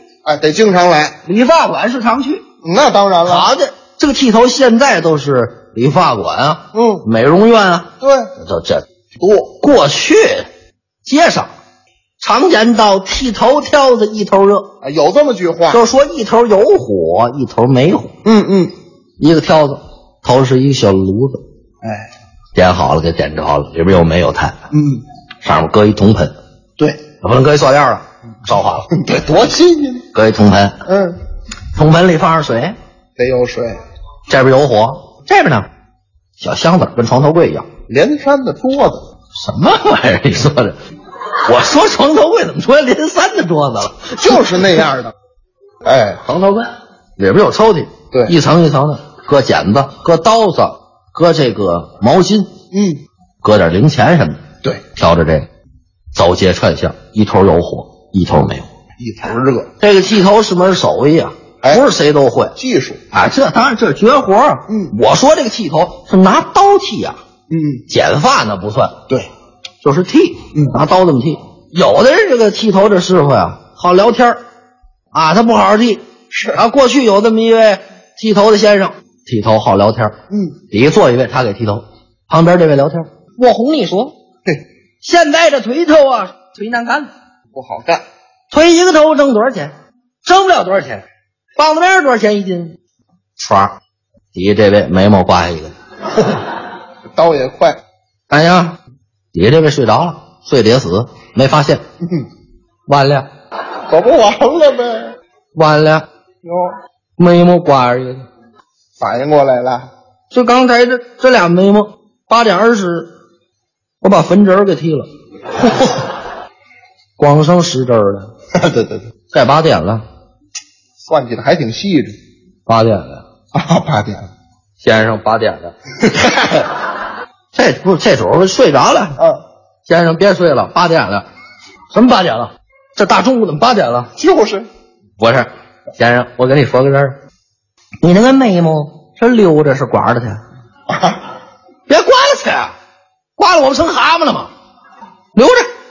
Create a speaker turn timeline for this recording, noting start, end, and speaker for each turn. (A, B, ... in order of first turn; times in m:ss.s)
0:00.2-0:01.2 A
0:01.2-0:02.4 B
0:02.6-0:03.5 A
0:03.2-0:08.8 B
0:06.7-0:07.0 A
0:08.0-0:08.3 A
0:09.2-0:09.5 A
0:09.6-0:10.5 B
0:11.0-0:11.5 B
0:12.2-0:14.7 B
0:14.8-0:15.8 A
0:15.7-0:18.1 B
0:18.2-0:18.7 A
0:19.2-0:21.4 B
0:21.8-0:22.1 A
0:22.5-0:24.6 B
0:24.7-0:25.0 A
0:25.4-0:26.3 B
0:27.2-0:28.9 B
0:28.9-0:30.0 A
0:30.1-0:30.8 B
0:30.9-0:31.2 A
0:31.7-0:32.8 B
0:33.2-0:33.8 A
0:34.3-0:35.6 B
0:36.4-0:37.7 B
0:37.9-0:39.0 A
0:39.4-0:40.8 B
0:41.4-0:44.4 B
0:44.2-0:45.1 A
0:45.8-0:46.3 A
0:46.3-0:52.5 B
0:52.7-0:53.0 A
0:53.4-0:54.4 B
0:54.9-0:55.5 B
0:56.1-0:58.6 B
0:59.0-0:59.7 A
0:59.8-1:02.5 B
1:02.6-1:03.0 A
1:03.1-1:07.2 B
1:07.5-1:07.8 A
1:07.9-1:09.0 B
1:09.8-1:14.4 B
1:15.1-1:20.2 B
1:16.3-1:16.6 A
1:20.3-1:20.6 A
1:20.7-1:24.2 B
1:25.0-1:27.1 B
1:27.5-1:28.0 A
1:28.5-1:31.0 B
1:31.6-1:32.7 B
1:33.4-1:33.7 B
1:34.3-1:35.7 B
1:37.1-1:37.8 A
1:38.3-1:38.8 B
1:39.3-1:41.8 B
1:42.9-1:43.3 B
1:43.9-1:45.1 A
1:45.5-1:46.0 B
1:46.4-1:46.7 A
1:47.2-1:48.2 B
1:49.0-1:49.9 A
1:50.3-1:53.1 B
1:54.0-1:55.1 B
1:57.2-1:58.3 B
1:58.5-1:59.1 A
1:59.3-2:00.0 B
2:01.0-2:02.2 A
2:02.6-2:03.2 B
2:03.5-2:04.3 A
2:04.8-2:05.7 B
2:07.5-2:09.2 B
2:09.8-2:11.2 B
2:11.9-2:14.1 B
2:14.2-2:14.7 A
2:15.2-2:17.2 B
2:18.0-2:20.4 B
2:20.9-2:21.2 A
2:21.9-2:22.7 B
2:23.4-2:24.5 B
2:25.3-2:25.7 B